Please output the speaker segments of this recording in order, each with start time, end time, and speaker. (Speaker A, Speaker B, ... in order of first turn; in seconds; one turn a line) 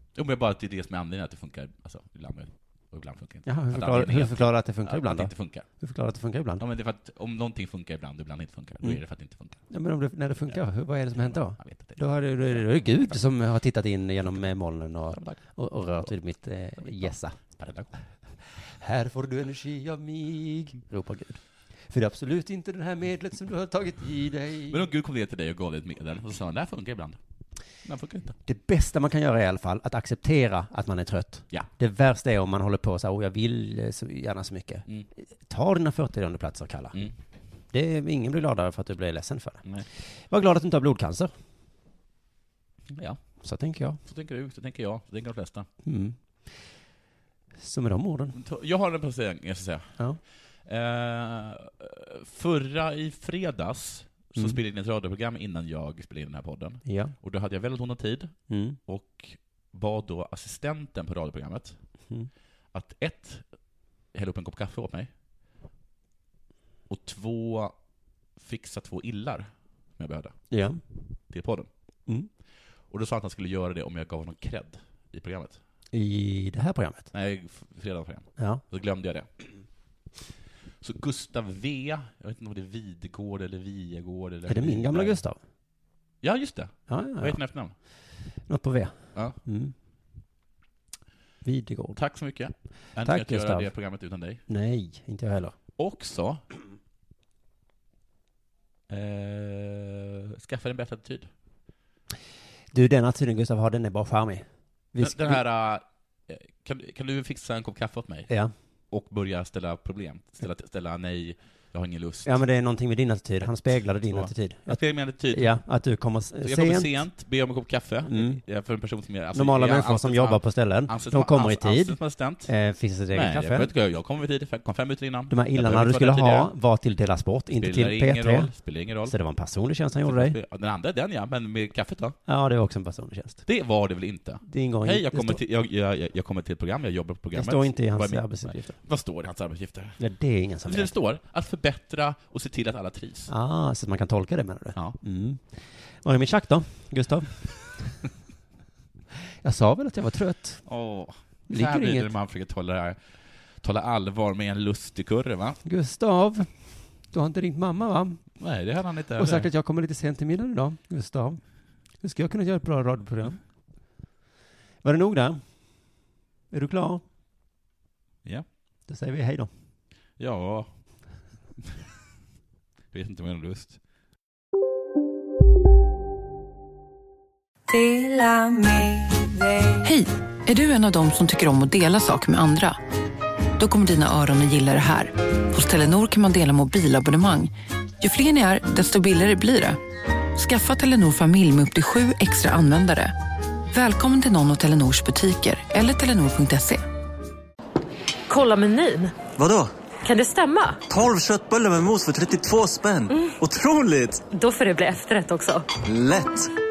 Speaker A: 0.1-5.7
Speaker B: 3.5-6.6
Speaker A: 6.6-9.6
Speaker B: 9.7-17.4
Speaker A: 11.2-13.2
Speaker A: 15.1-15.4
Speaker A: 16.8-17.9
Speaker B: 18.7-24.9
Speaker A: 24.7-27.2
Speaker A: 27.8-28.4
Speaker B: 28.4-37.0
Speaker B: 37.7-39.6
Speaker B: 40.3-41.3
Speaker A: 42.9-43.2
Speaker B: 43.4-44.0
Speaker A: 44.0-45.7
Speaker B: 45.8-46.2
Speaker B: 47.6-48.4
Speaker A: 48.3-49.9
Speaker A: 50.6-58.3
Speaker B: 56.8-57.1
Speaker B: 58.5-58.8
Speaker A: 58.9-61.8
Speaker A: 62.7-63.4
Speaker A: 64.1-65.1
Speaker A: 66.9-67.7
Speaker A: 68.4-70.4
Speaker B: 70.5-70.8
Speaker A: 71.3-71.7
Speaker A: 72.9-75.6
Speaker B: 75.9-77.1
Speaker A: 77.1-79.3
Speaker B: 78.4-78.6
Speaker A: 80.8-85.2
Speaker B: 84.5-85.4
Speaker A: 86.2-87.7
Speaker B: 86.9-87.4
Speaker B: 88.5-89.7
Speaker B: 91.4-92.0
Speaker A: 92.0-94.4
Speaker B: 93.0-93.7
Speaker B: 94.5-95.5
Speaker A: 95.8-96.4
Speaker A: 98.9-101.3
Speaker B: 102.7-105.4
Speaker A: 105.0-108.3
Speaker A: 108.9-112.3
Speaker B: 112.2-114.8
Speaker A: 114.1-115.6
Speaker B: 115.3-117.0
Speaker A: 116.4-122.5
Speaker B: 118.1-118.4
Speaker B: 119.3-123.7
Speaker A: 123.1-126.5
Speaker B: 125.3-128.5
Speaker A: 127.6-129.1
Speaker B: 129.1-130.3
Speaker A: 130.0-132.2
Speaker B: 132.2-133.4
Speaker A: 133.4-140.0
Speaker B: 134.4-135.4
Speaker B: 137.3-138.8
Speaker B: 140.0-140.9
Speaker A: 140.6-143.3
Speaker B: 143.3-147.3
Speaker B: 149.4-150.6
Speaker A: 150.7-153.0
Speaker B: 151.5-152.1
Speaker A: 153.6-155.6
Speaker B: 155.6-156.5
Speaker B: 157.1-158.2
Speaker A: 158.4-159.5
Speaker B: 159.2-161.4
Speaker B: 162.0-163.4
Speaker B: 164.8-165.4
Speaker B: 166.5-167.0
Speaker B: 168.9-169.5
Speaker A: 170.2-170.7
Speaker A: 172.9-173.8
Speaker C: 177.7-178.8
Speaker C: 179.8-182.8
Speaker C: 183.6-187.5
Speaker C: 188.0-189.8
Speaker C: 190.3-193.1
Speaker C: 193.7-196.8
Speaker D: 198.3-199.2
Speaker E: 199.3-199.7
Speaker D: 200.0-200.8
Speaker E: 200.9-204.2
Speaker D: 204.3-205.7
Speaker E: 205.8-206.5